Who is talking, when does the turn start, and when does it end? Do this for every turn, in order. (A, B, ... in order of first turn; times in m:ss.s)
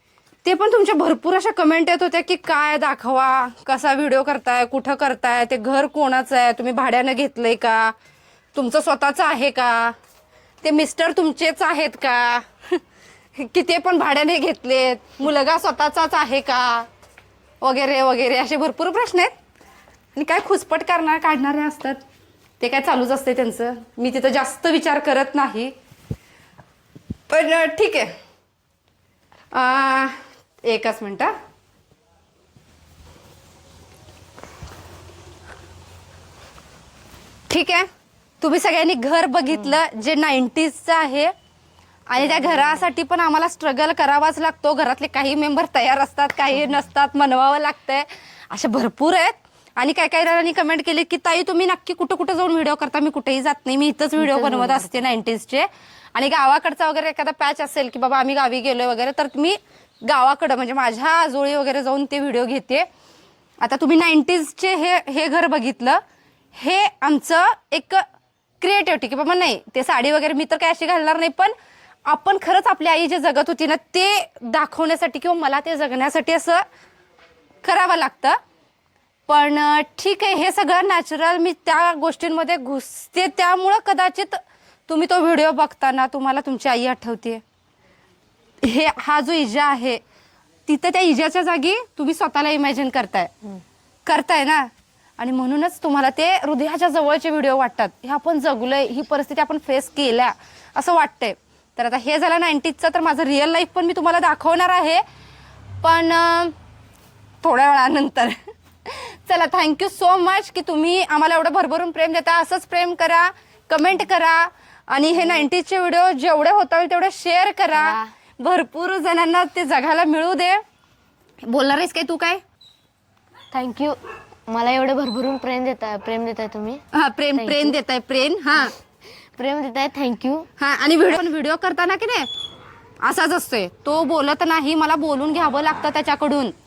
0:00.4-0:07.9 A
0:08.5-0:09.9 A
0:10.6-0:12.8 A
0:13.4-0:16.9 A
0:17.6-0:19.3 A
0:20.1-0:22.0 A
0:22.6-0:25.7 A
0:27.3-0:28.1 A
0:29.5-0:31.3 A
0:37.5-0:37.9 A
0:38.4-0:41.3 A
0:42.1-1:02.9 A
0:42.3-0:42.8 B
0:54.2-0:55.0 B
1:03.6-1:06.0 A
1:06.5-1:08.0 A
1:08.6-1:11.5 A
1:12.0-1:16.6 A
1:17.6-1:18.4 A
1:19.3-1:27.4 A
1:28.6-1:30.0 A
1:30.7-1:33.3 A
1:34.0-1:45.0 A
1:45.8-1:46.5 A
1:47.4-2:00.6 A
1:57.7-1:58.1 B
2:01.4-2:02.4 A
2:03.5-2:06.8 B
2:06.9-2:08.7 A
2:07.4-2:07.8 B
2:09.4-2:10.5 B
2:10.6-2:12.3 A
2:13.0-2:16.5 A